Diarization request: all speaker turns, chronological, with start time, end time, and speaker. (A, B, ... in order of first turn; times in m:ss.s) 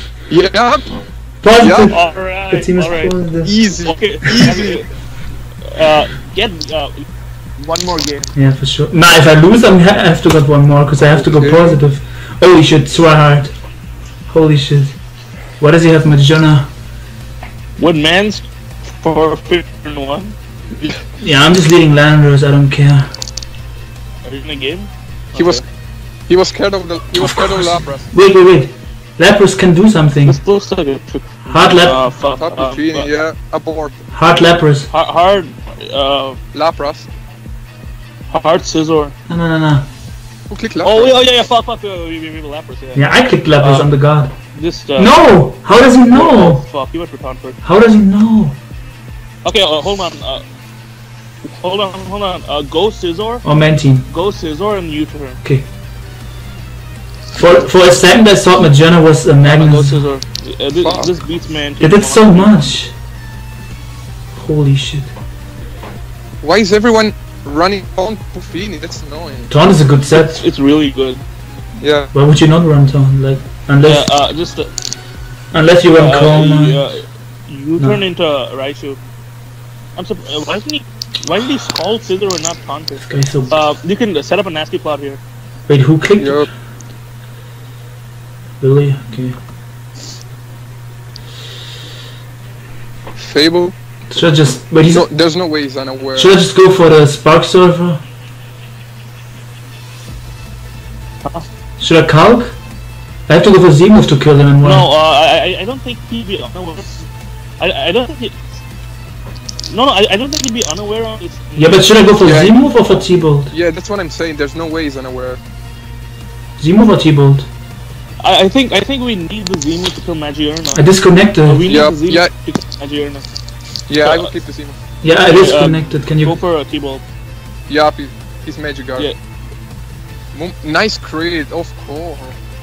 0:00.3-0:01.0 A
0:01.4-0:03.5 B
0:01.6-0:01.9 A
0:01.9-0:03.1 C
0:03.4-0:04.8 A
0:03.8-0:04.9 C
0:05.6-0:07.1 C
0:07.6-0:08.3 C
0:08.3-0:13.5 B
0:11.2-0:11.8 A
0:14.3-0:15.0 B
0:15.6-0:16.7 B
0:17.8-0:20.3 C
0:21.2-0:23.1 B
0:24.2-0:25.6 C
0:25.3-0:25.6 A
0:26.3-0:28.1 A
0:27.1-0:30.4 B
0:30.2-0:33.1 C
0:31.5-0:32.1 B
0:32.3-0:34.0 A
0:34.1-0:34.9 B
0:34.9-0:36.4 C
0:36.5-0:37.1 A
0:38.3-0:39.2 C
0:39.3-0:39.9 B
0:40.5-0:41.2 A
0:40.8-0:43.1 C
0:43.0-0:44.3 B
0:43.6-0:43.9 C
0:44.5-0:45.2 C
0:45.0-0:46.6 B
0:46.1-0:47.6 C
0:47.6-0:48.6 B
0:49.4-0:50.4 C
0:51.5-0:53.4 C
0:53.4-0:54.1 B
0:54.1-0:55.4 C
0:57.3-1:00.0 B
0:59.4-1:02.7 C
1:00.8-1:01.1 A
1:01.8-1:02.9 B
1:04.4-1:05.1 B
1:06.4-1:09.5 A
1:09.5-1:10.4 B
1:10.2-1:11.2 C
1:11.8-1:12.1 A
1:12.1-1:14.1 B
1:13.8-1:14.7 C
1:15.5-1:16.9 B
1:15.9-1:19.0 C
1:17.8-1:18.0 B
1:20.0-1:25.2 C
1:23.0-1:23.6 B
1:25.7-1:26.5 B
1:26.2-1:26.5 A
1:28.6-1:29.4 B
1:33.2-1:33.7 A
1:34.1-1:35.1 B
1:34.8-1:36.3 A
1:36.1-1:38.0 B
1:41.8-1:42.6 B
1:43.3-1:44.9 B
1:44.6-1:47.0 C
1:47.6-1:48.4 C
1:49.7-1:52.4 C
1:51.6-1:53.5 B
1:52.2-1:52.6 A
1:53.5-1:55.4 A
1:56.6-1:57.5 B
1:58.2-2:00.9 C
2:00.7-2:01.8 B
2:01.4-2:03.2 C
2:01.7-2:02.3 A
2:03.9-2:04.8 A
2:03.9-2:04.3 C
2:05.0-2:06.4 B
2:05.2-2:07.0 C
2:07.7-2:09.1 A
2:10.3-2:12.3 A